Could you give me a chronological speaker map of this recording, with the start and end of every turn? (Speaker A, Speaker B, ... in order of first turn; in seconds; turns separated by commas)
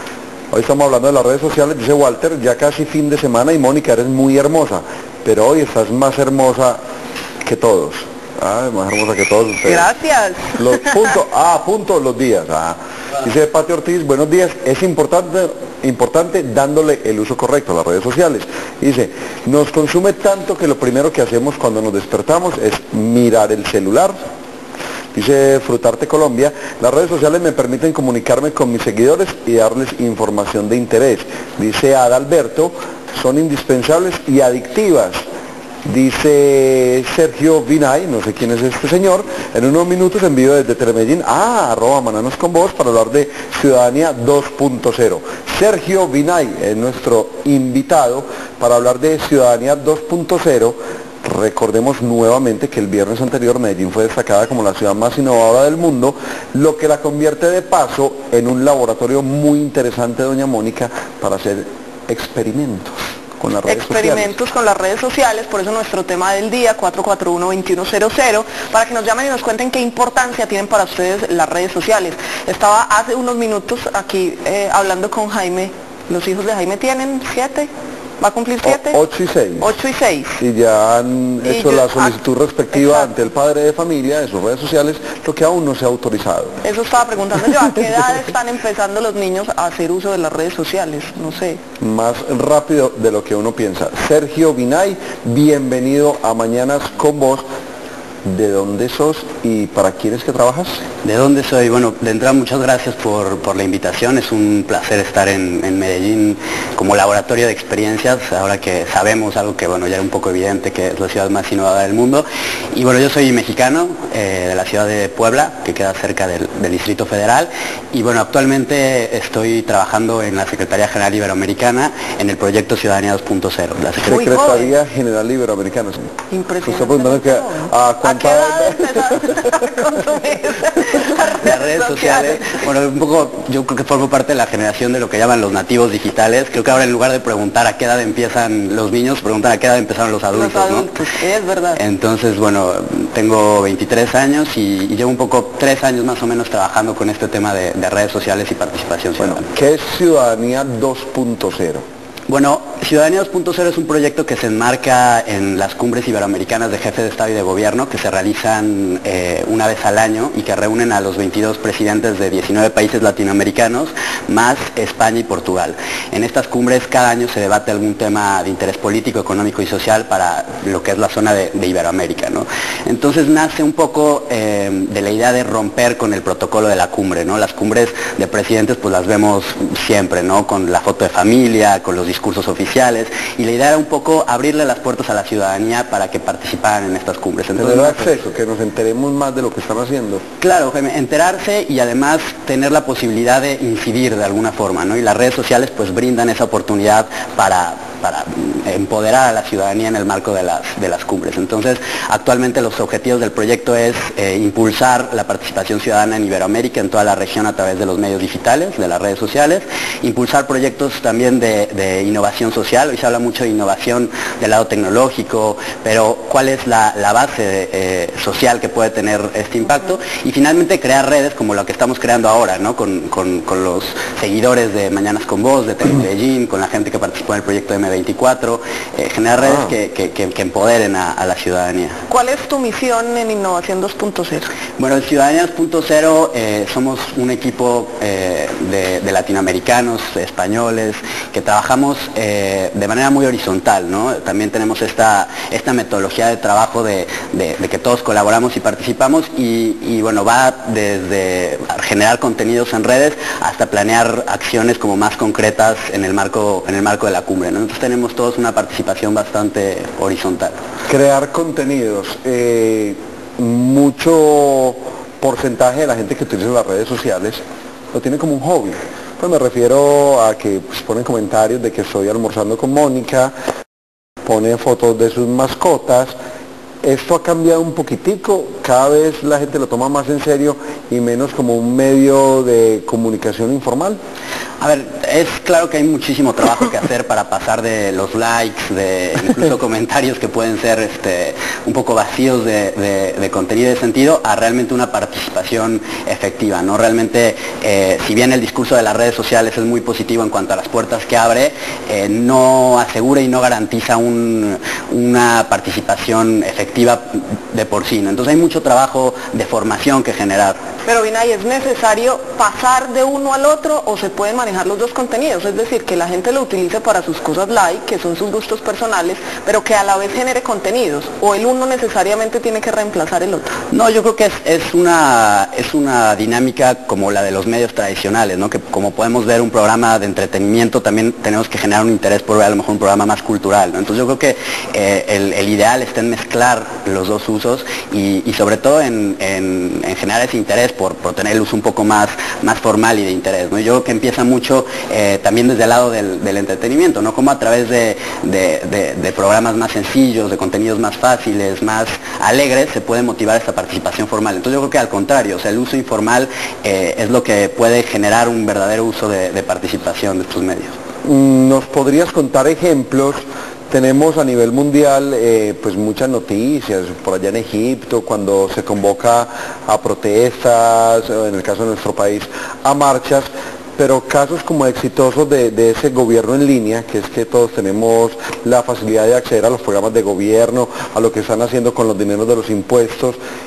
Speaker A: 0.5-6.8, Speaker A: 7.5-9.9, Speaker B: 9.7-11.0, Speaker A: 10.6-24.2, Speaker A: 25.1-35.2, Speaker A: 35.9-64.3, Speaker B: 63.7-77.7, Speaker B: 78.2-79.0, Speaker A: 78.6-79.7, Speaker B: 79.6-80.4, Speaker A: 80.4-86.5, Speaker B: 81.4-82.1, Speaker B: 82.8-83.0, Speaker B: 86.6-91.6, Speaker A: 91.8-97.4, Speaker A: 98.2-100.8, Speaker C: 101.0-124.2, Speaker A: 124.0-126.1, Speaker B: 124.1-124.7, Speaker B: 126.3-132.6, Speaker A: 126.7-129.5, Speaker C: 131.3-140.9, Speaker B: 140.3-141.8, Speaker C: 141.8-149.4, Speaker A: 149.2-151.8, Speaker C: 152.3-188.2, Speaker A: 187.6-190.2, Speaker C: 190.4-232.0, Speaker B: 232.1-234.5, Speaker C: 234.8-260.6, Speaker A: 260.9-267.4, Speaker A: 267.9-273.3, Speaker A: 274.3-276.1, Speaker A: 276.8-284.0, Speaker C: 284.6-310.6, Speaker B: 310.9-323.5, Speaker C: 323.7-360.8, Speaker A: 361.1-383.2